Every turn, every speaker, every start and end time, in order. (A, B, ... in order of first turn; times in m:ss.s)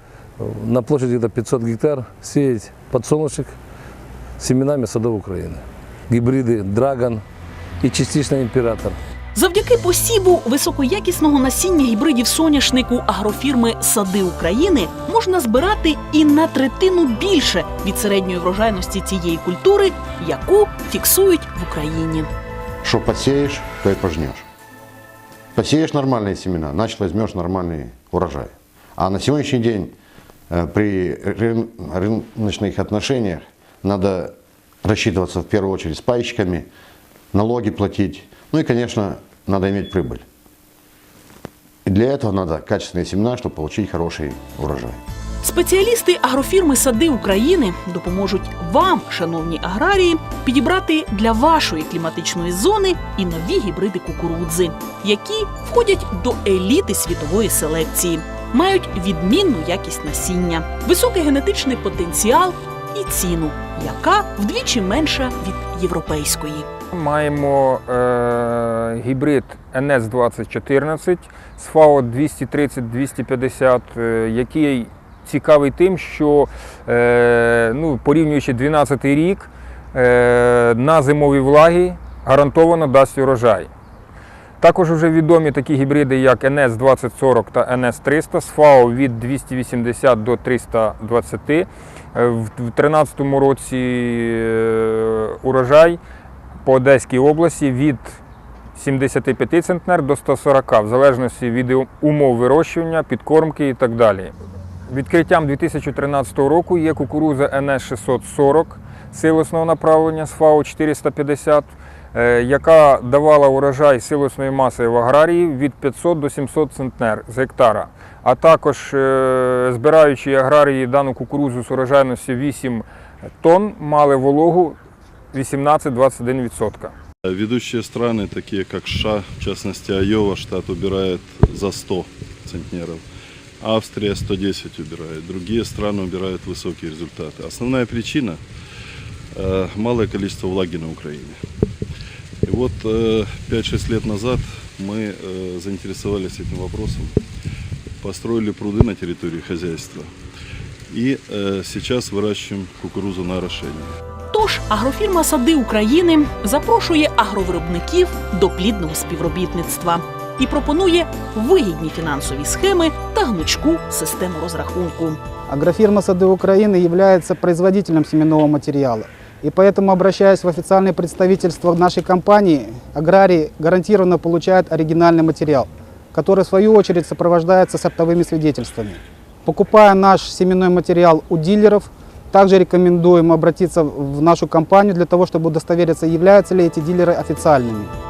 0:00.4-0:03.6 A
0:04.4-0:07.2 A
0:07.8-0:09.0 A
0:09.4-0:22.3 B
0:22.8-0:24.5 C
0:25.6-0:30.0 C
0:30.5-0:36.7 C
0:37.3-0:40.2 C
0:41.8-0:45.0 C
0:45.4-1:06.7 B
1:06.9-1:23.7 D
1:24.6-1:36.0 D
1:36.6-1:38.2 D
1:38.8-1:44.3 D
1:44.9-2:02.9 D
2:03.4-2:04.8 D
2:05.3-2:06.9 D
2:07.2-2:13.0 E
2:13.6-2:18.4 E
2:19.4-2:21.4 E
2:22.4-2:27.2 E
2:28.0-2:30.1 E
2:30.9-2:34.0 E
2:34.3-2:45.2 B
2:45.5-3:07.9 F